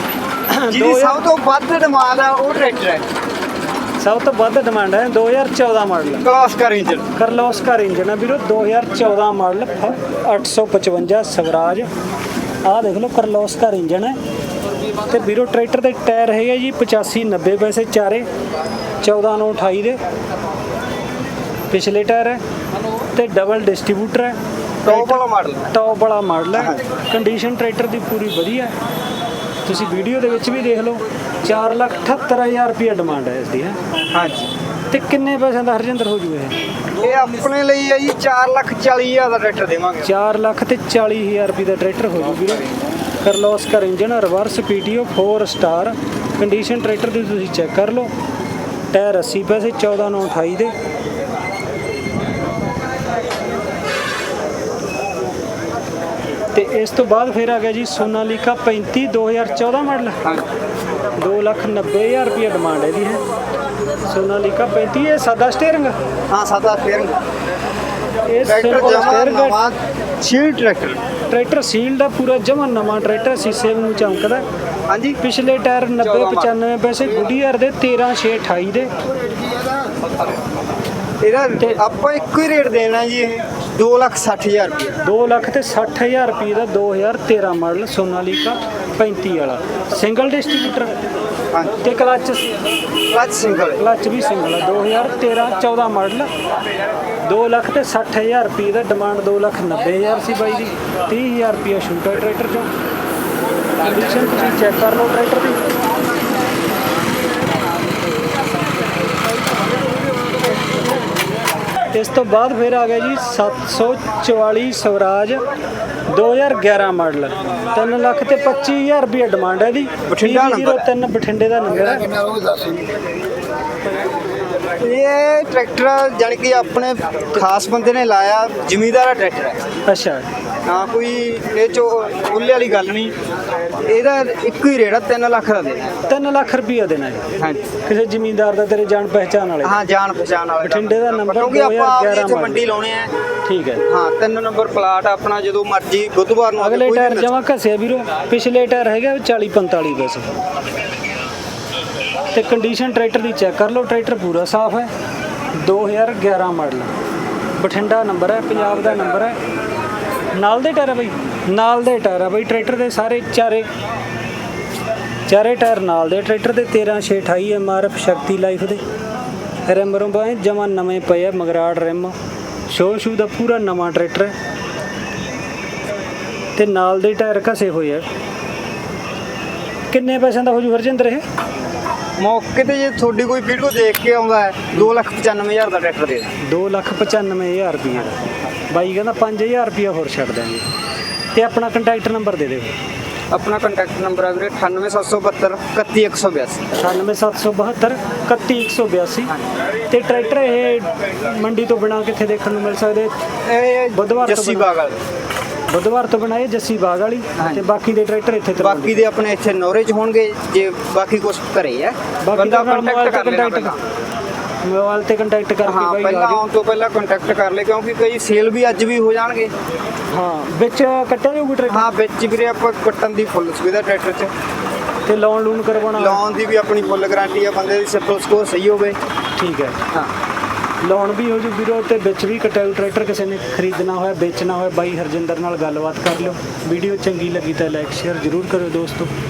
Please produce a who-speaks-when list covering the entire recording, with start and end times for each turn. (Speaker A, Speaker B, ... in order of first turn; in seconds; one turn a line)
Speaker A: 0.5-1.2
Speaker B: 0.7-3.0
Speaker A: 4.0-6.2
Speaker B: 6.2-7.1
Speaker A: 7.2-11.9
Speaker A: 12.6-14.2
Speaker A: 15.1-18.3
Speaker A: 19.0-20.0
Speaker A: 21.7-22.4
Speaker A: 23.1-28.7
Speaker B: 24.8-25.7
Speaker A: 29.6-33.8
Speaker B: 34.1-34.5
Speaker A: 34.9-36.6
Speaker B: 37.0-40.1
Speaker A: 40.0-42.7
Speaker A: 43.2-48.1
Speaker A: 48.9-50.7
Speaker A: 56.5-60.2
Speaker A: 61.2-63.2
Speaker A: 64.1-66.0
Speaker B: 66.3-67.2
Speaker A: 68.3-69.6
Speaker B: 68.5-71.0
Speaker A: 71.3-74.4
Speaker B: 74.9-75.2
Speaker A: 75.2-78.9
Speaker B: 76.0-76.5
Speaker B: 81.2-85.0
Speaker A: 85.0-91.0
Speaker A: 91.8-92.5
Speaker B: 93.1-93.8
Speaker A: 93.5-96.3
Speaker A: 97.2-102.7
Speaker A: 103.8-105.6
Speaker A: 111.9-115.4
Speaker A: 116.1-122.2
Speaker B: 120.1-120.9
Speaker B: 124.8-129.6
Speaker A: 129.9-130.2
Speaker B: 130.7-133.2
Speaker B: 133.8-135.9
Speaker A: 136.1-137.3
Speaker B: 137.4-137.7
Speaker A: 137.8-139.8
Speaker B: 139.6-143.1
Speaker A: 140.6-142.6
Speaker A: 143.4-143.8
Speaker B: 143.9-147.3
Speaker A: 146.6-150.3
Speaker A: 152.3-154.9
Speaker A: 155.6-156.9
Speaker A: 157.6-159.4
Speaker A: 160.3-163.7
Speaker A: 165.3-168.8
Speaker A: 169.7-172.1
Speaker A: 172.7-174.3
Speaker A: 176.6-178.1
Speaker A: 179.9-181.2
Speaker B: 182.2-186.3
Speaker A: 186.4-188.2
Speaker A: 188.7-190.6
Speaker A: 191.3-192.7
Speaker B: 193.3-196.7
Speaker A: 196.8-199.3
Speaker A: 199.9-203.1
Speaker B: 203.5-205.0
Speaker A: 203.9-204.7
Speaker A: 205.7-209.0
Speaker B: 207.4-207.6
Speaker B: 208.6-213.8
Speaker A: 212.2-213.8
Speaker A: 214.6-216.4
Speaker B: 215.6-219.5
Speaker A: 220.1-221.9
Speaker B: 221.7-224.3
Speaker A: 225.1-226.2
Speaker B: 226.0-229.0
Speaker A: 229.4-229.8
Speaker A: 230.8-239.1